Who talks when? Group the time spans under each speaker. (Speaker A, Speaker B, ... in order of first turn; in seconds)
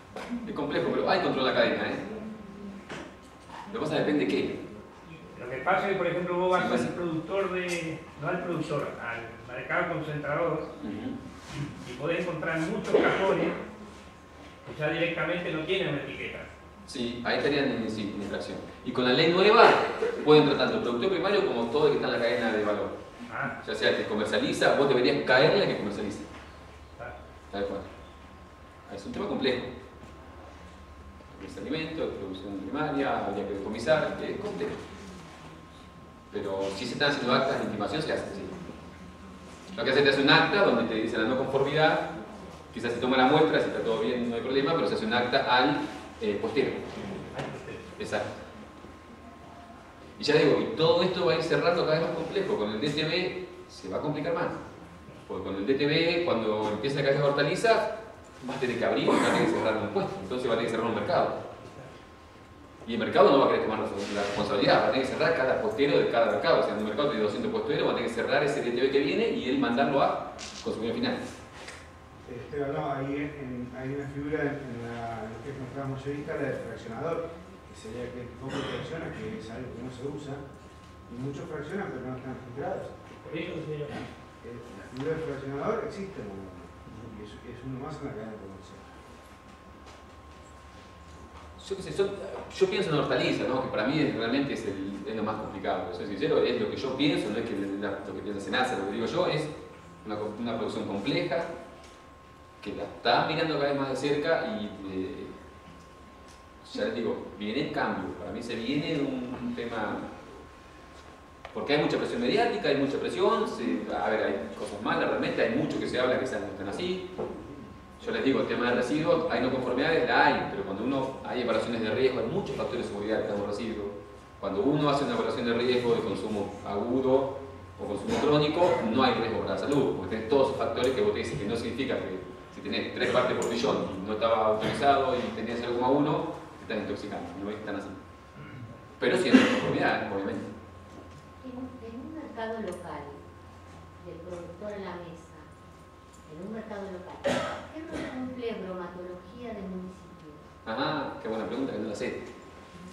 Speaker A: 0.4-2.0, 3.7-4.6, 6.5-6.9, 10.8-11.2, 16.9-22.9, 23.6-26.3, 27.5-27.9, 28.9-29.7, 31.3-34.8, 36.3-38.5, 39.7-42.1, 42.7-46.9, 48.0-48.4, 50.2-54.6, 55.2-61.4, 62.8-71.2, 91.6-99.5, 100.0-101.5, 102.6-105.3, 106.6-110.1, 111.5-117.1, 118.0-138.0, 139.0-140.5, 150.6-152.2
Speaker B: 5.2-10.7, 11.8-13.6, 14.6-16.5, 23.3-23.5, 47.3-47.8, 83.2-83.9
Speaker C: 72.2-80.4, 81.1-82.9, 84.4-88.9
Speaker D: 141.4-143.2, 144.0-145.5, 146.2-150.5